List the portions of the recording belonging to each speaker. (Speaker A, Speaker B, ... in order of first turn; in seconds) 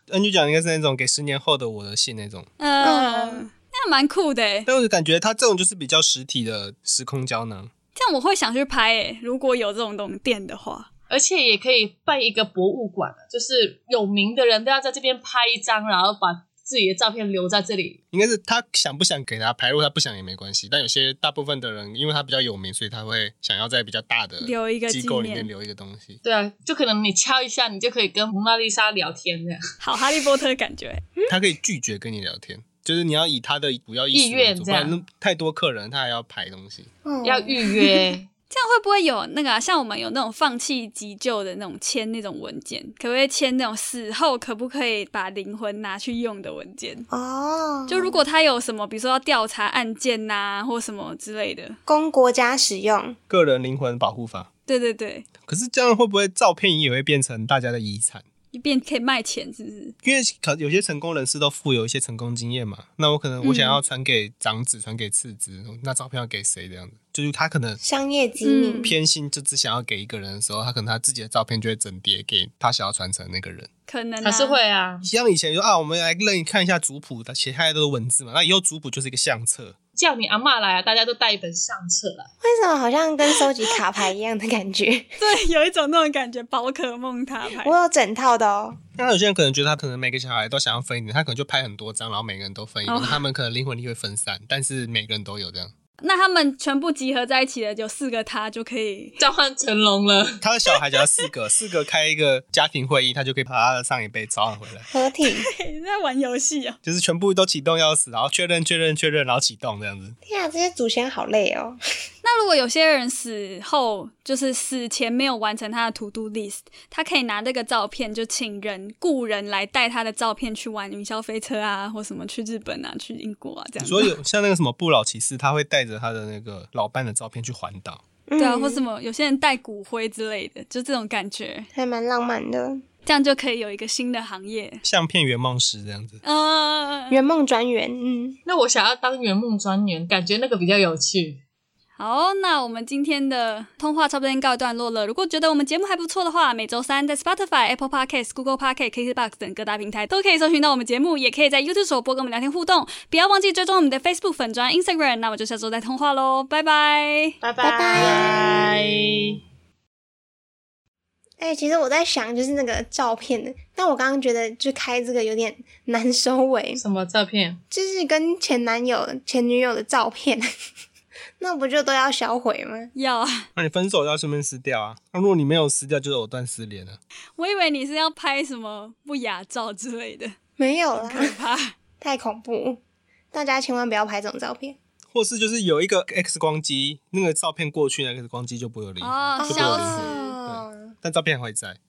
Speaker A: 0.1-2.5, 4.7-7.7, 18.1-26.2, 31.3-36.9, 53.3-54.5, 55.4-58.2, 60.0-67.8, 68.8-73.7, 75.0-79.8, 89.0-95.7, 100.4-104.9, 106.8-110.2, 123.8-128.0, 134.8-136.2, 158.0-158.5, 173.5-177.0, 185.1-191.8
Speaker B: 2.6-4.7, 7.9-10.9, 24.4-25.5, 29.8-31.0, 38.5-47.1, 47.9-51.8, 54.7-55.3, 58.5-60.0, 63.5-63.8, 68.4-68.9, 73.9-74.6, 85.2-87.7, 92.8-93.2, 96.0-99.2, 105.5-106.8, 112.2-124.1, 128.4-131.7, 133.0-134.8, 136.2-137.2, 142.0-157.3, 172.9-173.5, 177.4-180.3, 181.0-181.8, 189.0-190.4
Speaker C: 2.8-3.4, 37.0-38.1, 47.1-48.2, 51.9-53.2, 67.8-68.9, 82.4-85.2, 87.6-88.8, 104.9-105.5, 110.2-111.8, 128.3-128.8, 131.7-132.8, 137.1-138.4, 157.6-158.4, 161.4-166.8, 167.7-170.5, 171.4-172.9, 180.6-181.3, 182.0-182.8, 183.3-184.8, 189.4-190.9
Speaker D: 11.1-18.0, 26.2-29.6, 34.1-34.9, 37.2-38.3, 74.2-75.1, 80.0-82.3, 99.2-100.4, 138.4-141.4, 157.4-159.3, 166.8-167.6